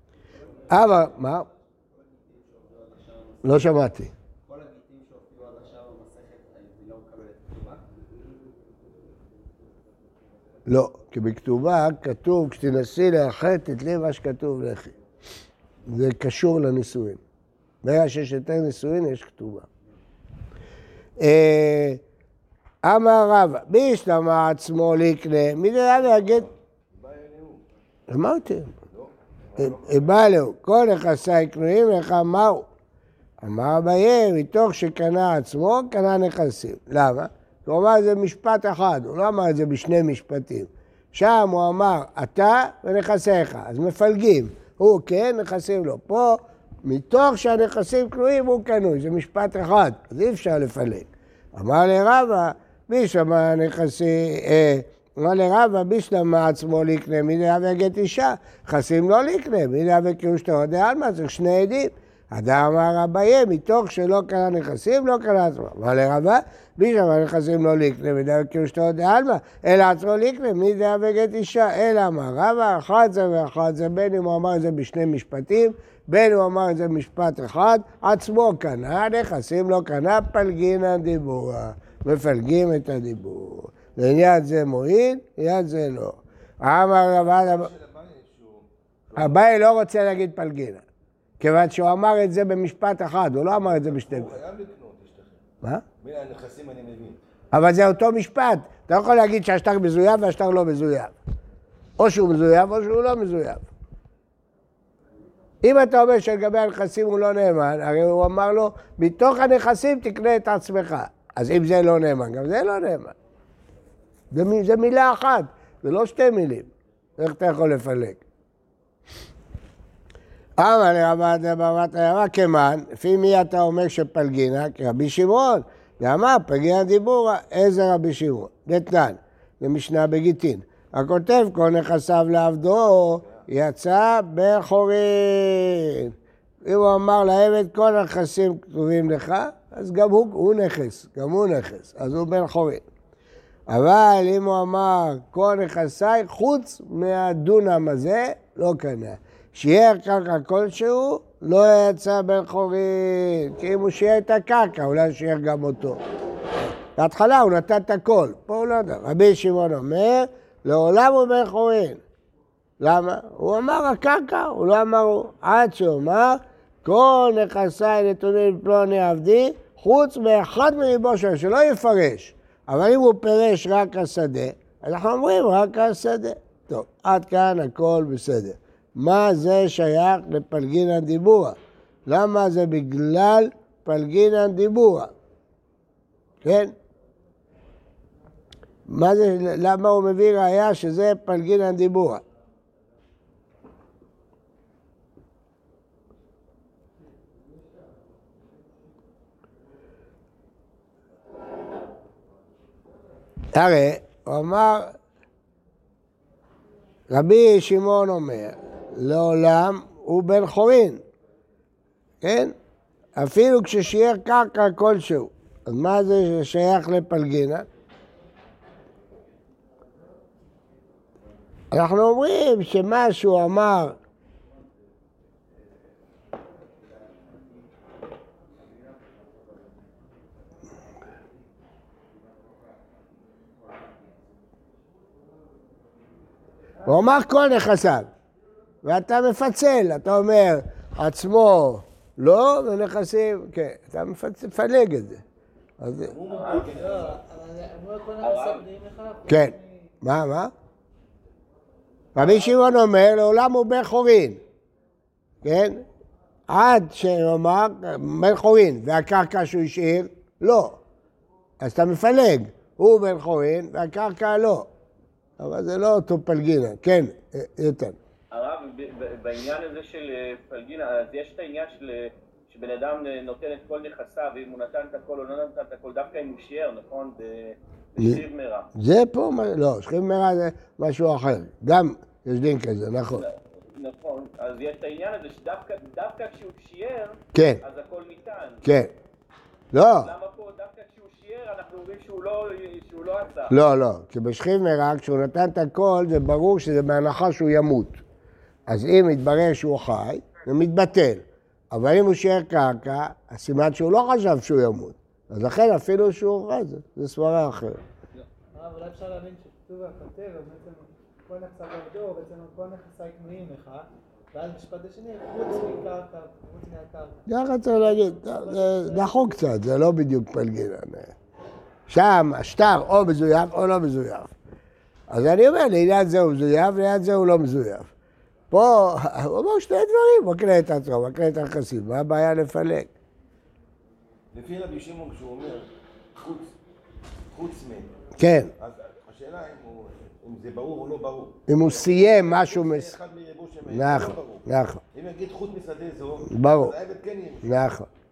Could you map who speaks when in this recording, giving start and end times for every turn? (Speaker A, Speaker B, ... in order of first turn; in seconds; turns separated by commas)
Speaker A: 0.4-3.8, Speaker B: 0.7-1.5, Speaker B: 3.4-4.1, Speaker A: 4.5-7.8, Speaker B: 10.7-14.9, Speaker B: 15.9-17.2, Speaker B: 17.8-19.7, Speaker B: 21.2-22.0, Speaker B: 22.8-26.5, Speaker C: 25.9-27.6, Speaker B: 28.1-28.7, Speaker C: 28.9-30.2, Speaker B: 29.6-32.7, Speaker B: 33.4-87.7, Speaker C: 87.1-89.5, Speaker B: 89.1-90.8, Speaker B: 91.4-94.3, Speaker C: 93.6-95.4, Speaker C: 96.0-97.2, Speaker B: 97.5-101.2, Speaker B: 102.0-103.7, Speaker B: 105.6-113.1, Speaker B: 114.3-118.2, Speaker B: 120.6-142.8, Speaker C: 133.2-133.4, Speaker B: 143.7-156.0, Speaker B: 156.9-162.0, Speaker B: 162.8-185.1, Speaker B: 186.4-186.7, Speaker B: 188.9-192.2, Speaker B: 203.5-204.9, Speaker B: 207.1-211.0, Speaker B: 212.2-212.5, Speaker B: 213.2-217.7, Speaker B: 221.7-224.0, Speaker B: 236.8-238.1, Speaker B: 238.8-245.2, Speaker B: 245.8-246.1, Speaker C: 246.0-247.2, Speaker D: 246.3-249.9, Speaker E: 246.4-246.6, Speaker E: 248.2-248.6, Speaker B: 249.3-250.5, Speaker B: 252.1-254.4, Speaker B: 255.4-255.8, Speaker B: 256.5-260.8, Speaker B: 261.6-264.7, Speaker B: 265.4-267.9, Speaker E: 268.3-278.7, Speaker B: 278.7-283.2, Speaker E: 283.1-288.6, Speaker B: 287.3-287.6, Speaker B: 288.6-288.9, Speaker B: 289.7-290.1, Speaker E: 290.0-293.5, Speaker B: 293.5-298.0, Speaker B: 298.7-307.8, Speaker D: 308.5-319.4, Speaker B: 317.3-321.1, Speaker B: 321.9-324.3, Speaker B: 325.1-327.9, Speaker B: 328.5-332.9, Speaker C: 334.3-336.6, Speaker C: 337.3-337.9, Speaker B: 338.1-338.5, Speaker C: 338.6-347.8, Speaker B: 341.5-342.9, Speaker B: 343.6-344.8, Speaker B: 346.3-346.7, Speaker B: 347.4-347.9